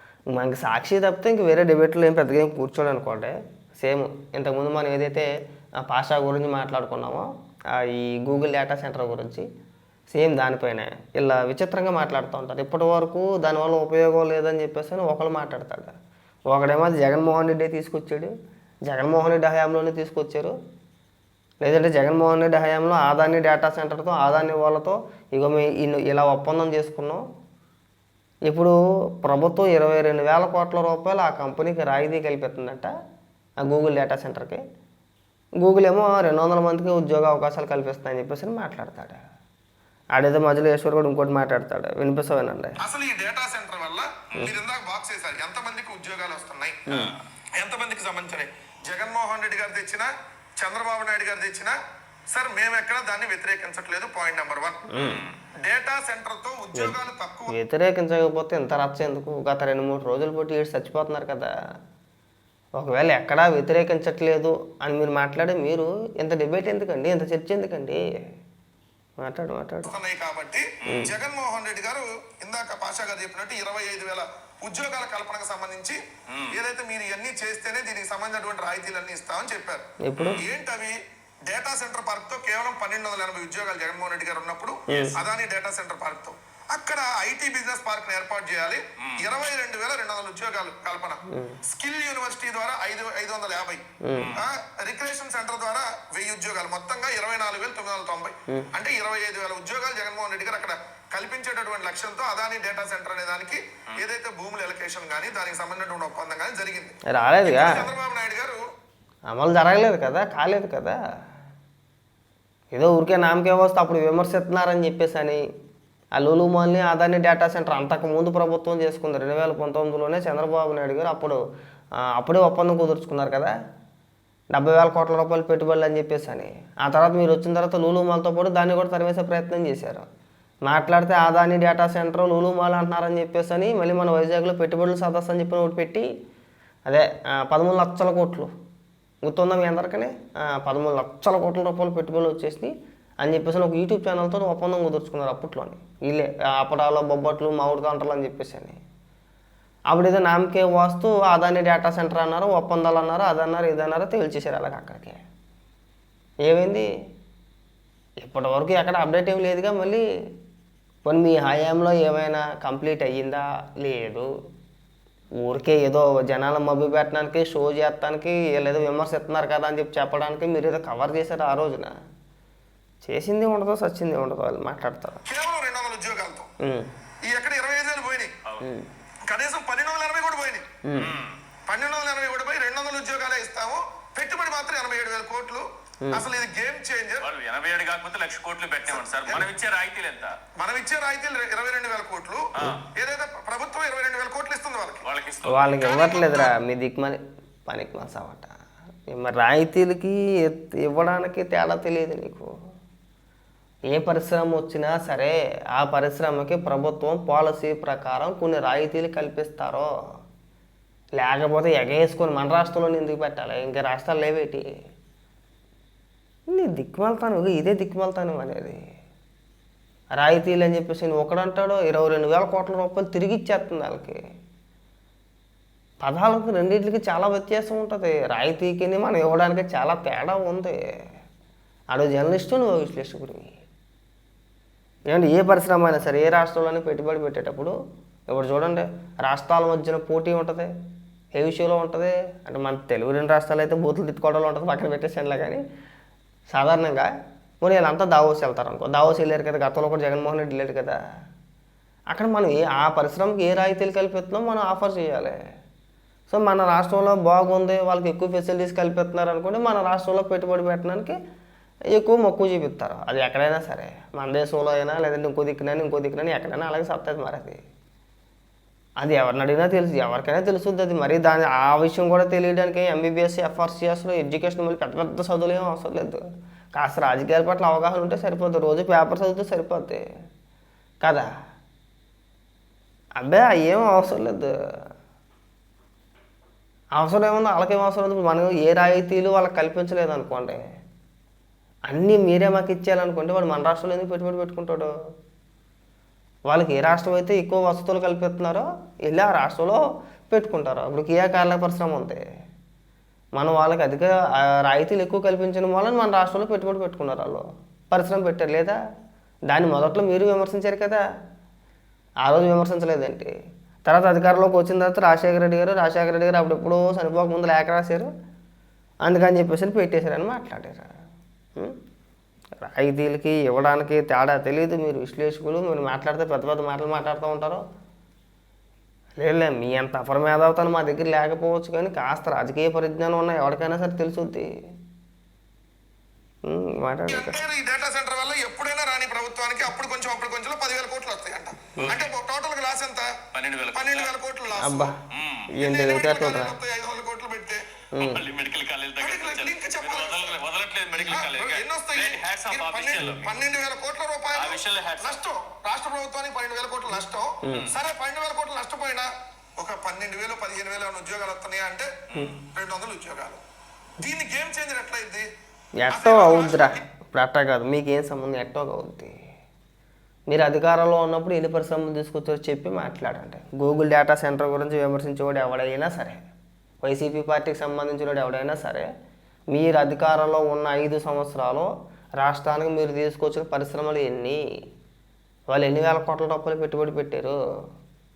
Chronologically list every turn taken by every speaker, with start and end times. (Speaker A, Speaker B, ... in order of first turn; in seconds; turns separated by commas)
Speaker A: 0.3-5.3, Speaker A: 5.8-9.5, Speaker A: 10.1-15.9, Speaker A: 16.5-18.3, Speaker A: 18.9-20.5, Speaker A: 21.6-27.2, Speaker A: 28.5-32.9, Speaker A: 33.6-34.6, Speaker A: 35.6-39.2, Speaker A: 40.1-42.8, Speaker B: 42.8-51.8, Speaker B: 52.3-57.5, Speaker A: 54.9-55.2, Speaker A: 57.5-61.5, Speaker A: 62.8-68.0, Speaker A: 69.2-69.9, Speaker B: 69.9-76.0, Speaker C: 70.8-71.1, Speaker B: 76.5-79.8, Speaker A: 80.1-80.4, Speaker B: 80.4-81.0, Speaker B: 81.5-93.8, Speaker A: 84.9-85.1, Speaker A: 91.3-91.6, Speaker A: 94.0-94.3, Speaker B: 94.3-108.6, Speaker A: 107.1-107.9, Speaker A: 109.3-111.0, Speaker A: 112.7-115.4, Speaker A: 116.2-121.4, Speaker A: 122.1-123.5, Speaker A: 124.5-130.1, Speaker A: 130.7-136.1, Speaker A: 136.9-138.5, Speaker A: 139.2-148.8, Speaker A: 149.9-155.2, Speaker A: 156.5-156.9, Speaker A: 158.2-160.0, Speaker A: 161.1-164.3, Speaker A: 165.4-171.9, Speaker A: 173.0-175.2, Speaker B: 175.2-176.5, Speaker B: 177.2-178.3, Speaker B: 179.3-180.7, Speaker A: 180.8-181.1, Speaker C: 181.0-181.4, Speaker B: 181.7-187.3, Speaker C: 187.2-190.4, Speaker B: 188.9-189.5, Speaker B: 190.6-195.1, Speaker C: 192.6-192.8, Speaker C: 195.0-195.8, Speaker A: 195.5-198.5, Speaker B: 195.8-196.5, Speaker A: 199.1-202.5, Speaker A: 203.9-209.9, Speaker A: 211.2-214.7, Speaker A: 216.5-218.8, Speaker A: 220.2-224.2, Speaker A: 226.0-230.8, Speaker A: 231.9-233.6, Speaker A: 235.1-237.7, Speaker A: 238.3-240.7, Speaker A: 241.3-245.6, Speaker A: 246.5-247.1, Speaker A: 247.6-251.0, Speaker A: 252.1-255.4, Speaker A: 256.3-261.2, Speaker A: 261.9-267.6, Speaker A: 269.0-276.2, Speaker A: 276.8-280.0, Speaker A: 283.2-284.5, Speaker A: 287.0-290.6, Speaker A: 291.9-294.9, Speaker A: 296.5-302.2, Speaker A: 303.4-308.8, Speaker A: 309.5-311.0, Speaker A: 312.2-313.3, Speaker A: 313.9-318.1, Speaker A: 319.0-320.9, Speaker A: 322.6-327.6, Speaker A: 329.2-334.5, Speaker A: 336.5-337.4, Speaker B: 337.1-344.9, Speaker C: 343.3-344.1, Speaker A: 344.6-344.9, Speaker C: 345.1-345.5, Speaker A: 345.6-346.5, Speaker B: 345.6-347.6, Speaker A: 347.9-348.2, Speaker C: 348.0-353.4, Speaker B: 349.0-350.4, Speaker B: 351.0-359.1, Speaker C: 354.4-355.2, Speaker C: 357.5-357.8, Speaker B: 359.6-361.9, Speaker C: 362.1-362.4, Speaker B: 362.5-363.4, Speaker B: 364.0-365.3, Speaker A: 365.8-369.1, Speaker B: 365.9-366.8, Speaker A: 370.3-376.2, Speaker A: 376.8-378.9, Speaker A: 379.5-384.4, Speaker A: 385.5-387.4